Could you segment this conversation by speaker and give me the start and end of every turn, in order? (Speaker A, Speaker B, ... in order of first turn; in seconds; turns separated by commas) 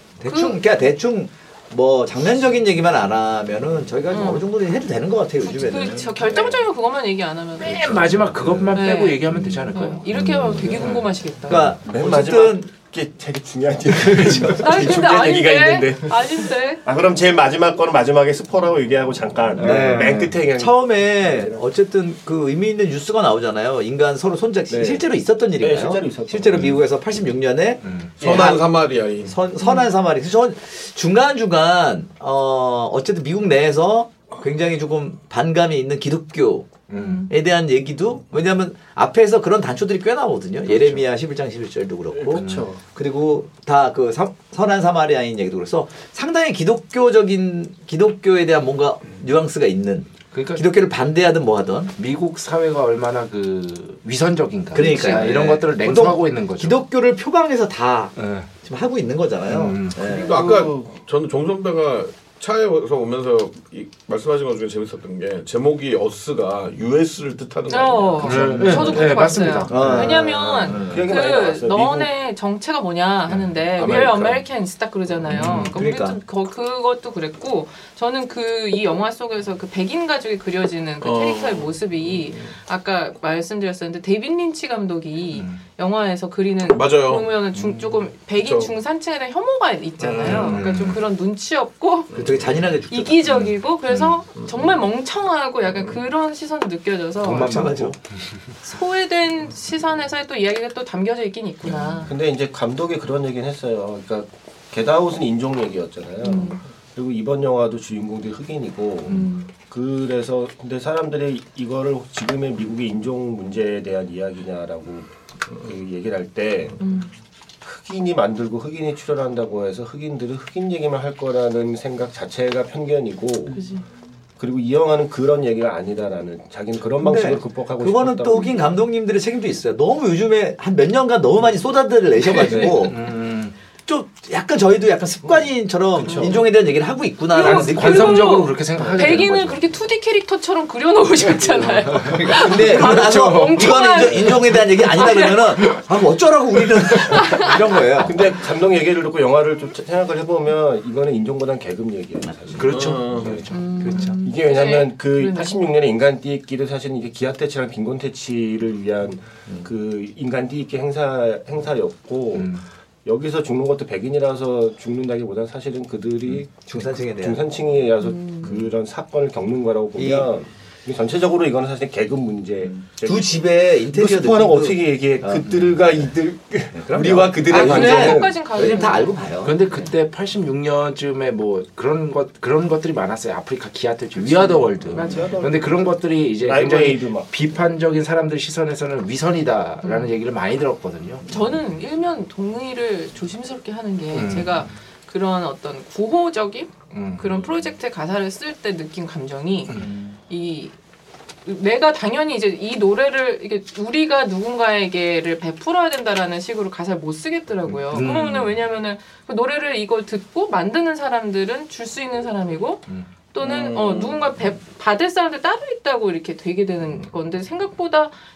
Speaker A: 0.2-6.6, Speaker B: 0.3-0.6, Speaker B: 4.1-4.5, Speaker B: 5.4-8.1, Speaker C: 7.6-10.1, Speaker B: 8.7-11.7, Speaker A: 9.3-12.7, Speaker D: 11.7-21.6, Speaker A: 14.2-14.6, Speaker B: 14.6-16.8, Speaker C: 19.6-20.4, Speaker A: 19.6-28.7, Speaker D: 24.7-26.8, Speaker C: 27.8-28.1, Speaker D: 28.2-28.6, Speaker E: 28.2-29.4, Speaker A: 29.2-36.7, Speaker B: 29.6-29.9, Speaker C: 36.9-37.3, Speaker B: 37.0-37.3, Speaker A: 37.3-51.9, Speaker D: 42.2-42.8, Speaker C: 42.3-42.7, Speaker C: 50.3-50.6, Speaker C: 52.0-56.8, Speaker A: 54.7-60.4, Speaker C: 58.2-58.5, Speaker C: 59.5-60.0, Speaker D: 60.0-60.9, Speaker E: 60.2-69.4, Speaker B: 60.4-60.6, Speaker B: 67.7-92.1, Speaker C: 68.2-70.4, Speaker A: 69.7-71.2, Speaker D: 69.7-72.1, Speaker E: 73.8-74.4, Speaker A: 75.3-76.2, Speaker C: 75.3-75.7, Speaker E: 81.0-82.5, Speaker C: 85.3-85.6, Speaker E: 86.7-87.3, Speaker E: 88.3-88.7, Speaker E: 90.0-90.6, Speaker C: 90.2-91.0, Speaker E: 92.1-92.5, Speaker A: 92.1-93.3, Speaker B: 92.9-97.7, Speaker E: 94.4-94.7, Speaker E: 95.7-96.0, Speaker C: 97.2-98.0, Speaker A: 97.2-98.0, Speaker B: 98.6-102.1, Speaker D: 102.0-116.8, Speaker B: 106.2-106.6, Speaker B: 109.1-109.5, Speaker B: 116.8-117.1, Speaker D: 117.6-123.6, Speaker B: 123.5-123.8, Speaker D: 124.4-128.8, Speaker A: 127.0-133.0, Speaker D: 132.5-132.8, Speaker C: 132.5-133.6, Speaker A: 133.9-138.4, Speaker D: 136.0-136.5, Speaker B: 137.3-145.8, Speaker C: 137.3-139.6, Speaker C: 141.5-143.9, Speaker A: 142.0-148.2, Speaker B: 147.1-147.6, Speaker D: 148.0-153.5, Speaker A: 152.6-153.0, Speaker C: 152.6-153.7, Speaker E: 152.6-153.4, Speaker B: 153.5-155.6, Speaker A: 153.8-154.2, Speaker D: 154.2-178.7, Speaker C: 162.3-162.6, Speaker A: 166.3-167.4, Speaker B: 168.0-168.6, Speaker A: 170.0-170.3, Speaker A: 172.7-175.5, Speaker C: 175.4-175.8, Speaker A: 176.7-179.6, Speaker B: 177.4-179.2, Speaker C: 179.4-191.2, Speaker D: 184.2-185.8, Speaker B: 184.9-185.4, Speaker D: 186.4-187.3, Speaker B: 189.8-190.1, Speaker B: 191.3-200.7, Speaker C: 194.1-194.7, Speaker C: 196.9-197.5, Speaker A: 199.8-200.1, Speaker B: 201.5-218.1, Speaker C: 207.9-208.6, Speaker E: 213.4-214.4